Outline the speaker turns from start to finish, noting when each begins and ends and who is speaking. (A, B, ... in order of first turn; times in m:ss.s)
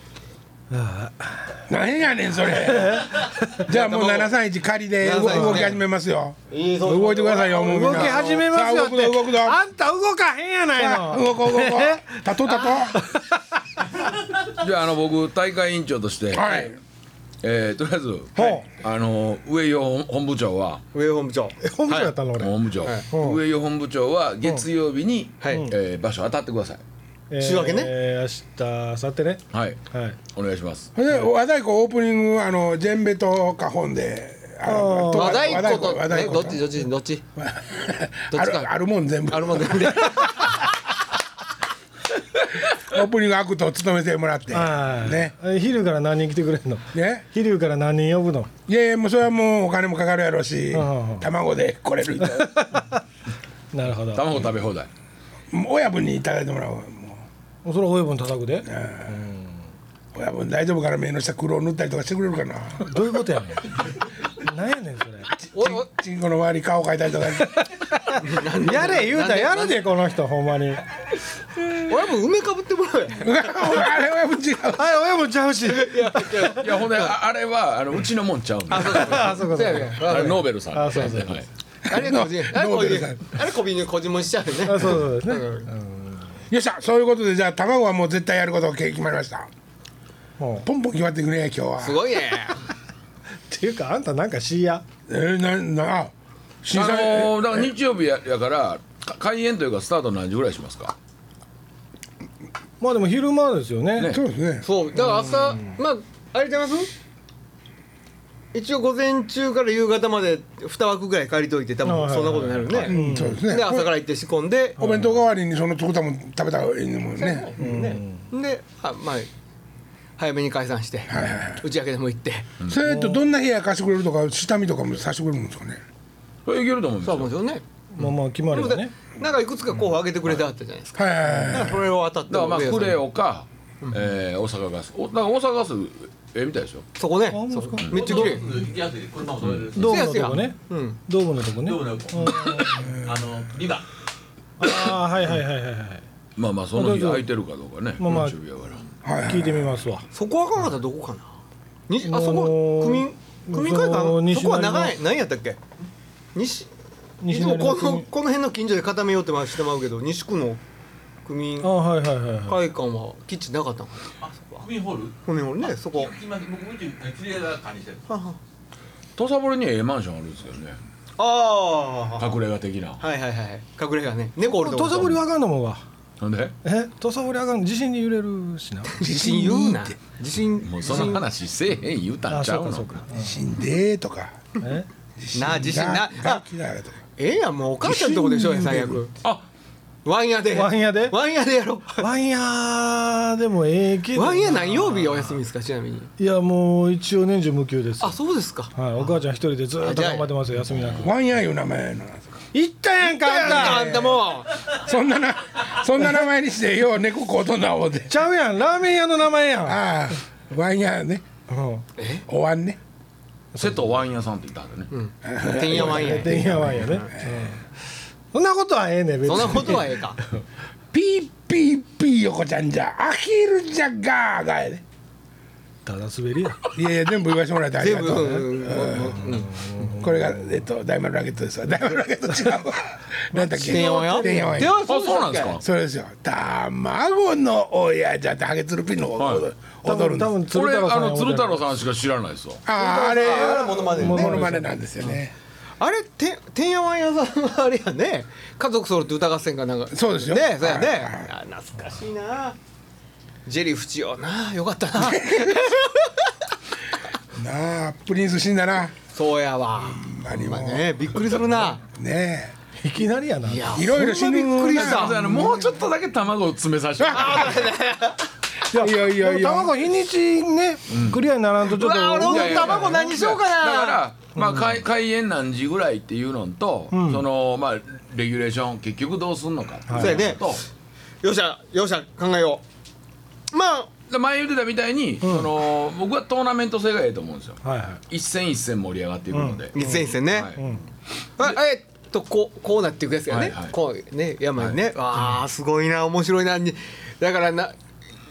0:00.7-0:01.6 A
0:01.7-0:09.6 B
0:02.5-0:03.6 A
0:03.6-0:04.3 C
0:05.0-0:05.8 C
0:05.2-0:05.7 A
0:06.5-0:08.4 C
0:07.6-0:13.4 A
0:10.7-0:13.0 B
0:14.4-0:16.6 D
0:16.3-0:16.8 B
0:17.4-0:20.8 D
0:18.4-0:18.6 A
0:20.9-0:22.1 C
0:21.6-0:22.5 A
0:22.4-0:26.8 D
0:23.1-0:23.4 A
0:25.4-0:25.7 C
0:27.3-0:30.2 A
0:27.4-0:27.9 C
0:29.5-0:29.8 D
0:30.3-0:30.9 D
0:30.9-0:36.7 B
0:34.6-0:35.9 A
0:35.1-0:37.2 C
0:37.4-0:40.2 B
0:38.3-0:38.7 C
0:39.3-0:40.5 C
0:42.7-0:45.3 B
0:44.5-0:48.5 A
0:46.9-0:47.2 B
0:48.7-0:52.5 B
0:50.7-0:51.3 A
0:52.2-0:53.0 A
0:53.7-0:54.4 A
0:54.1-0:54.9 D
0:55.5-0:57.2 B
0:57.6-0:59.5 A
0:58.6-0:59.2 B
1:00.1-1:03.2 B
1:02.8-1:03.7 A
1:04.4-1:05.3 A
1:05.4-1:07.6 B
1:05.5-1:05.9 C
1:07.5-1:10.8 A
1:08.2-1:09.8 C
1:11.7-1:13.8 C
1:13.2-1:14.9 B
1:14.8-1:16.6 A
1:15.6-1:17.1 C
1:16.4-1:21.5 D
1:18.7-1:21.1 C
1:18.8-1:21.4 A
1:21.9-1:23.3 B
1:21.9-1:25.7 C
1:24.6-1:26.2 A
1:26.5-1:29.5 B
1:30.4-1:30.7 A
1:30.6-1:32.1 B
1:31.8-1:32.6 C
1:33.5-1:34.8 A
1:35.1-1:37.7 B
1:36.7-1:41.0 D
1:42.8-1:44.1 A
1:44.0-1:44.7 B
1:44.6-1:46.9 C
1:45.0-1:45.7 A
1:48.5-1:54.8 C
1:51.8-1:53.4 A
1:52.8-1:53.9 B
1:54.8-1:57.5 B
1:54.8-1:55.2 A
1:57.2-1:59.3 C
1:57.6-1:58.3 A
2:00.2-2:02.5 C
2:01.1-2:01.6 B
2:02.6-2:05.8 B
2:02.8-2:03.2 A
2:06.4-2:07.3 D
2:07.0-2:07.6 C
2:07.9-2:08.9 A
2:08.5-2:13.0 C
2:11.0-2:11.8 B
2:12.3-2:16.8 D
2:13.8-2:14.1 C
2:17.0-2:18.5 C
2:17.3-2:18.4 A
2:17.8-2:18.2 D
2:17.9-2:20.2 E
2:19.4-2:19.7 D
2:19.8-2:22.8 A
2:19.8-2:21.0 C
2:21.6-2:23.9 E
2:24.6-2:26.0 A
2:26.4-2:28.8 D
2:26.7-2:27.2 A
2:28.0-2:28.4 A
2:29.0-2:29.8 B
2:29.2-2:30.0 A
2:30.1-2:31.3 C
2:31.9-2:35.6 C
2:32.0-2:35.0 A
2:36.3-2:36.7 C
2:37.2-2:38.1 A
2:37.3-2:40.6 C
2:41.2-2:41.7 C
2:41.6-2:42.6 A
2:42.5-2:44.6 C
2:44.2-2:48.0 E
2:45.2-2:46.1 C
2:48.1-2:48.4 C
2:49.2-2:50.8 D
2:51.2-2:52.4 C
2:52.2-2:53.0 D
2:53.0-2:55.2 C
2:54.5-2:55.8 A
2:56.2-2:56.5 D
2:56.6-2:59.0 A
2:58.9-3:01.2 C
2:59.0-3:00.0 B
3:00.6-3:03.0 D
3:02.3-3:03.4 A
3:03.1-3:04.4 B
3:04.6-3:04.9 A
3:05.2-3:07.0 B
3:05.3-3:06.4 C
3:07.2-3:09.1 C
3:07.8-3:09.0 B
3:10.0-3:12.0 C
3:10.5-3:11.1 A
3:12.0-3:14.9 A
3:14.1-3:16.1 C
3:16.2-3:18.2 A
3:18.0-3:18.7 C
3:18.7-3:21.1 A
3:19.8-3:20.3 C
3:20.7-3:21.1 D
3:21.0-3:22.3 B
3:22.5-3:24.0 A
3:23.0-3:24.6 C
3:23.4-3:28.1 B
3:28.1-3:29.8 A
3:29.6-3:31.2 B
3:31.5-3:31.8 A
3:32.0-3:32.2 C
3:32.3-3:32.8 B
3:33.5-3:33.8 A
3:33.6-3:34.9 D
3:34.9-3:37.1 C
3:35.2-3:36.6 B
3:35.7-3:37.6 A
3:37.2-3:37.4 B
3:38.3-3:40.0 A
3:39.2-3:40.2 C
3:40.9-3:44.8 B
3:45.8-3:46.7 A
3:46.7-3:49.3 B
3:47.8-3:49.6 C
3:49.2-3:50.5 A
3:50.0-3:54.8 B
3:53.3-3:54.7 A
3:53.6-3:55.6 C
3:54.8-3:55.6 D
3:55.6-4:00.4 B
3:59.2-3:59.4 D
3:59.8-4:01.7 A
4:00.5-4:02.6 D
4:02.6-4:05.3 B
4:02.7-4:04.5 C
4:03.9-4:04.7 A
4:05.8-4:12.6 C
4:09.9-4:11.3 B
4:13.4-4:16.3 C
4:15.0-4:15.7 B
4:17.4-4:18.9 B
4:19.1-4:21.8 C
4:19.9-4:21.3 B
4:21.8-4:22.5 B
4:22.8-4:23.8 A
4:23.5-4:25.2 C
4:23.7-4:25.8 B
4:24.7-4:27.7 D
4:27.0-4:27.5 B
4:27.1-4:28.3 C
4:28.7-4:29.8 B
4:28.7-4:33.0 A
4:30.9-4:31.2 D
4:31.6-4:34.0 C
4:32.2-4:40.6 D
4:34.4-4:34.7 A
4:36.9-4:37.2 A
4:39.9-4:40.2 A
4:40.0-4:40.4 C
4:41.2-4:42.6 C
4:43.5-4:43.9 C
4:44.1-4:50.6 D
4:45.2-4:45.5 A
4:47.6-4:48.0 A
4:49.3-4:50.8 A
4:49.7-4:50.6 C
4:51.4-4:57.7 C
4:53.3-4:53.7 D